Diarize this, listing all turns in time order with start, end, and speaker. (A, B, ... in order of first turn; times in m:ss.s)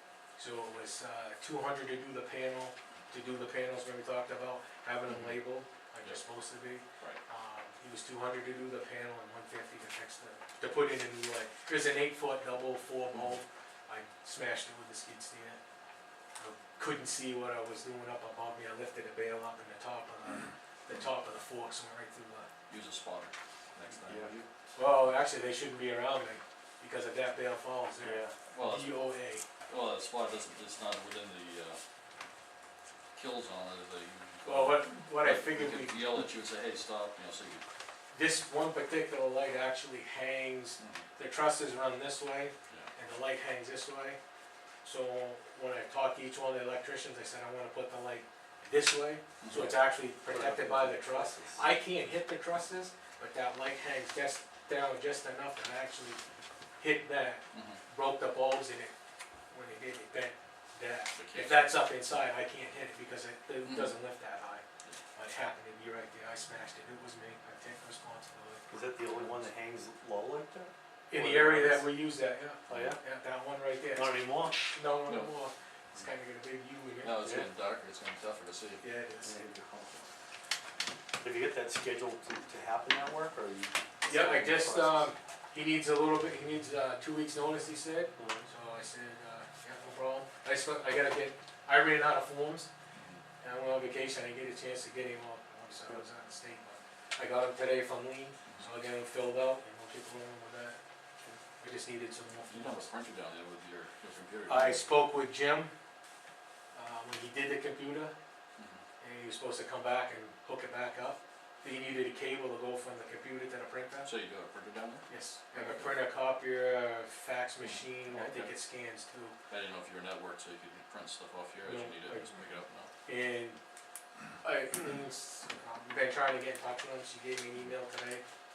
0:00.4-0:15.6 A
0:05.1-0:05.4 B
0:16.4-0:22.5 A
0:22.7-0:24.5 B
0:24.0-0:24.3 C
0:24.8-0:29.5 A
0:28.0-0:28.3 C
0:28.5-0:29.0 B
0:29.7-0:31.8 B
0:33.2-0:37.6 B
0:34.4-0:36.2 A
0:38.1-0:44.2 A
0:40.8-0:41.1 B
0:44.8-0:56.2 A
0:49.4-0:49.7 B
0:49.5-0:51.7 C
0:56.8-0:58.9 A
0:57.5-0:57.8 B
0:59.5-1:08.7 A
1:01.1-1:01.8 B
1:03.6-1:03.9 B
1:08.7-1:11.9 C
1:11.1-1:17.2 A
1:12.7-1:13.0 C
1:14.0-1:14.6 C
1:15.1-1:15.3 B
1:17.0-1:18.8 B
1:18.8-1:19.3 A
1:19.2-1:20.1 C
1:21.2-1:25.1 C
1:24.1-1:32.7 A
1:28.2-1:28.5 C
1:33.0-1:33.2 B
1:33.4-1:40.8 A
1:41.6-1:42.9 A
1:42.5-1:44.8 B
1:44.5-1:45.7 A
1:46.7-1:48.1 A
1:48.6-1:48.8 B
1:49.0-1:54.1 A
1:54.0-1:56.0 B
1:55.1-1:59.4 A
1:57.6-1:58.5 B
1:59.5-2:02.9 B
2:01.6-2:02.3 A
2:03.1-2:03.6 A
2:04.4-2:08.2 A